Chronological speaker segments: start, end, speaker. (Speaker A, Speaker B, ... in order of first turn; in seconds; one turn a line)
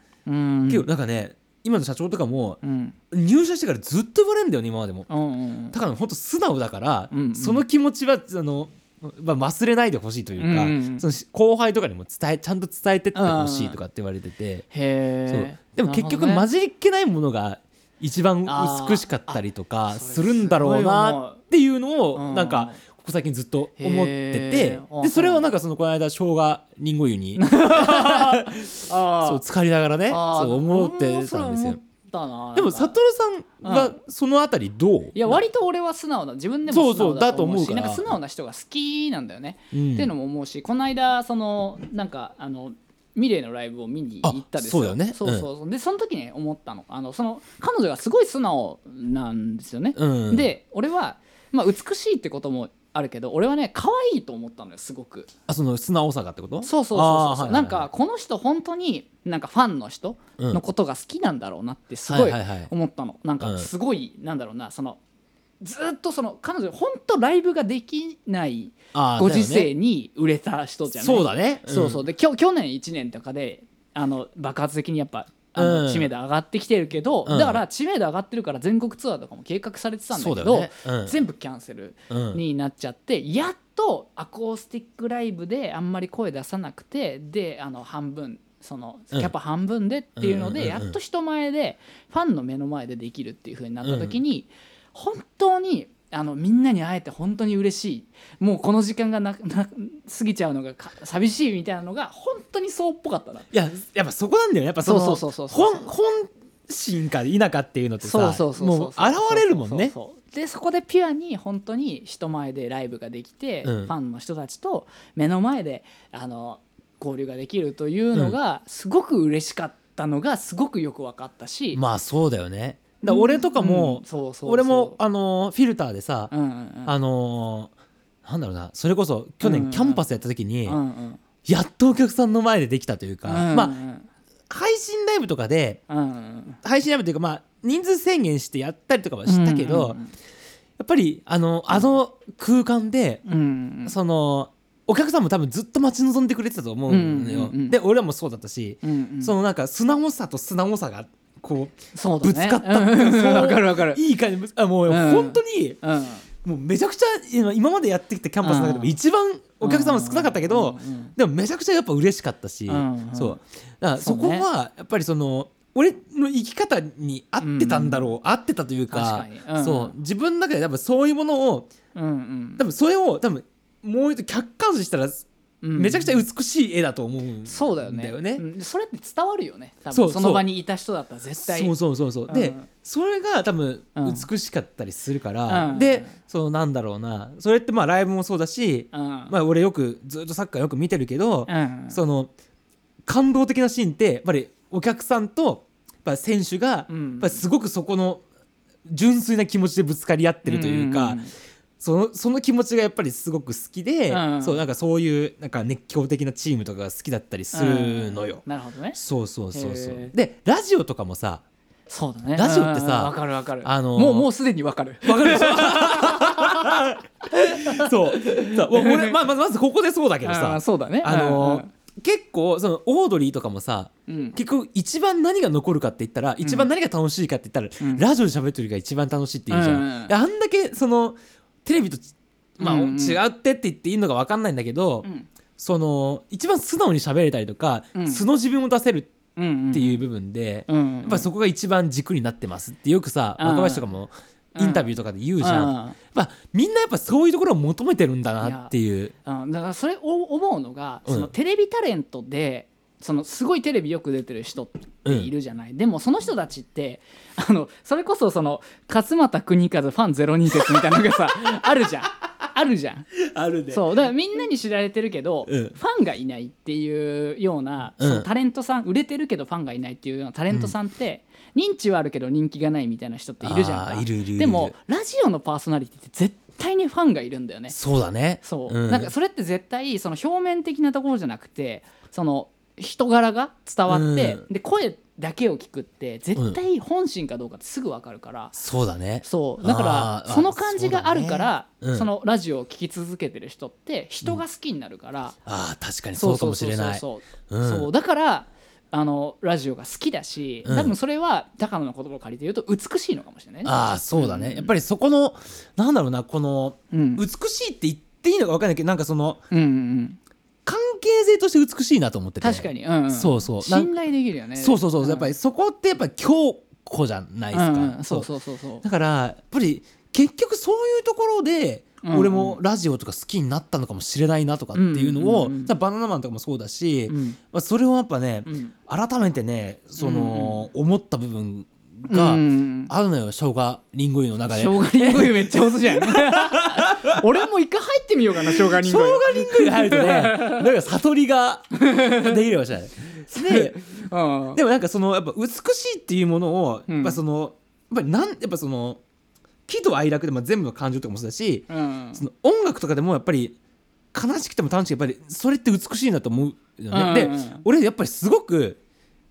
Speaker A: 0.3-0.9
Speaker B: 0.7-2.6
Speaker A: 2.6-3.0
Speaker B: 3.1-5.1
Speaker A: 5.1-5.8
Speaker B: 5.7-14.7
Speaker A: 7.1-7.7
Speaker A: 10.4-11.1
Speaker A: 13.1-13.8
Speaker A: 14.7-16.4
Speaker B: 15.3-31.8
Speaker A: 18.5-21.4
Speaker A: 22.1-22.8
Speaker A: 23.8-25.4
Speaker A: 27.4-29.4
Speaker A: 30.1-33.0
Speaker B: 32.5-35.4
Speaker A: 33.6-34.0
Speaker A: 35.1-55.3
Speaker B: 36.7-38.1
Speaker B: 39.7-40.1
Speaker B: 44.2-45.5
Speaker B: 50.0-50.5
Speaker B: 55.5-57.9
Speaker A: 56.6-65.0
Speaker B: 62.1-62.7
Speaker B: 63.4-63.7
Speaker A: 65.6-103.5
Speaker B: 68.9-69.7
Speaker B: 70.9-72.0
Speaker B: 75.5-76.1
Speaker B: 77.3-77.6
Speaker B: 80.1-81.2
Speaker B: 82.1-82.4
Speaker B: 90.2-90.9
Speaker B: 93.8-94.2
Speaker B: 103.5-109.9
Speaker A: 104.8-105.9
Speaker A: 108.0-121.8
Speaker B: 113.6-113.9
Speaker B: 121.7-126.3
Speaker A: 123.1-125.0
Speaker A: 126.3-126.9
Speaker B: 126.9-127.7
Speaker B: 128.2-130.8
Speaker A: 129.4-130.0
Speaker A: 130.7-131.2
Speaker B: 131.4-133.8
Speaker A: 133.2-134.1
Speaker B: 134.5-135.8
Speaker A: 135.9-136.6
Speaker B: 136.6-140.0
Speaker A: 139.3-140.1
Speaker B: 140.8-143.2
Speaker A: 143.2-143.9
Speaker B: 143.9-155.8
Speaker A: 146.9-147.8
Speaker A: 148.8-149.3
Speaker A: 151.9-154.0
Speaker A: 154.9-156.2
Speaker B: 156.4-171.7
Speaker A: 158.4-158.9
Speaker A: 159.6-161.1
Speaker A: 162.7-163.4
Speaker A: 164.0-164.5
Speaker A: 167.4-168.1
Speaker A: 168.9-169.9
Speaker A: 171.9-172.6
Speaker B: 172.6-178.4
Speaker A: 175.6-176.2
Speaker A: 177.4-181.7
Speaker B: 179.9-180.5
Speaker B: 181.4-192.3
Speaker A: 182.3-182.7
Speaker A: 184.0-184.3
Speaker A: 185.5-186.2
Speaker A: 188.9-189.3
Speaker A: 191.5-192.0
Speaker B: 193.1-198.2
Speaker A: 196.9-197.4
Speaker B: 198.9-201.2
Speaker A: 200.4-201.3
Speaker B: 201.8-208.4
Speaker A: 204.1-204.6
Speaker A: 207.5-209.0
Speaker B: 208.9-211.4
Speaker A: 209.5-210.1
Speaker A: 211.9-219.2
Speaker B: 212.4-214.3
Speaker B: 215.1-235.1
Speaker A: 220.2-221.7
Speaker A: 224.1-224.4
Speaker A: 226.4-226.7
Speaker A: 227.8-228.1
Speaker A: 229.5-230.1
Speaker A: 232.6-233.2
Speaker B: 235.6-239.1
Speaker A: 237.9-238.2
Speaker A: 239.4-240.0
Speaker B: 239.7-249.1
Speaker A: 240.7-241.3
Speaker A: 243.4-243.9
Speaker A: 244.6-244.9
Speaker A: 245.4-246.0
Speaker A: 248.4-248.7
Speaker A: 249.2-263.1
Speaker B: 255.1-255.3
Speaker B: 260.7-261.1
Speaker B: 263.2-263.9
Speaker A: 263.7-277.8
Speaker B: 265.5-265.8
Speaker B: 268.0-268.3
Speaker B: 273.4-274.7
Speaker B: 277.7-279.1
Speaker A: 278.4-288.6
Speaker B: 283.9-284.4
Speaker B: 288.6-292.1
Speaker A: 289.2-295.4
Speaker B: 295.5-297.9
Speaker A: 296.1-304.7
Speaker B: 300.6-300.9
Speaker B: 303.6-309.4
Speaker A: 306.9-307.2
Speaker A: 309.5-310.2
Speaker B: 310.7-313.9
Speaker A: 312.4-315.3
Speaker B: 314.6-318.3
Speaker A: 317.5-318.8
Speaker B: 318.8-337.2
Speaker A: 322.0-322.6
Speaker A: 324.7-325.7
Speaker A: 327.1-327.4
Speaker A: 328.5-328.7
Speaker A: 330.0-330.6
Speaker A: 332.1-332.9
Speaker A: 334.5-340.7
Speaker B: 338.5-343.8
Speaker A: 341.8-342.4
Speaker A: 343.3-344.6
Speaker B: 344.5-349.0
Speaker A: 346.9-347.2
Speaker B: 349.7-353.6
Speaker A: 351.7-352.2
Speaker B: 354.1-358.8
Speaker A: 356.9-357.6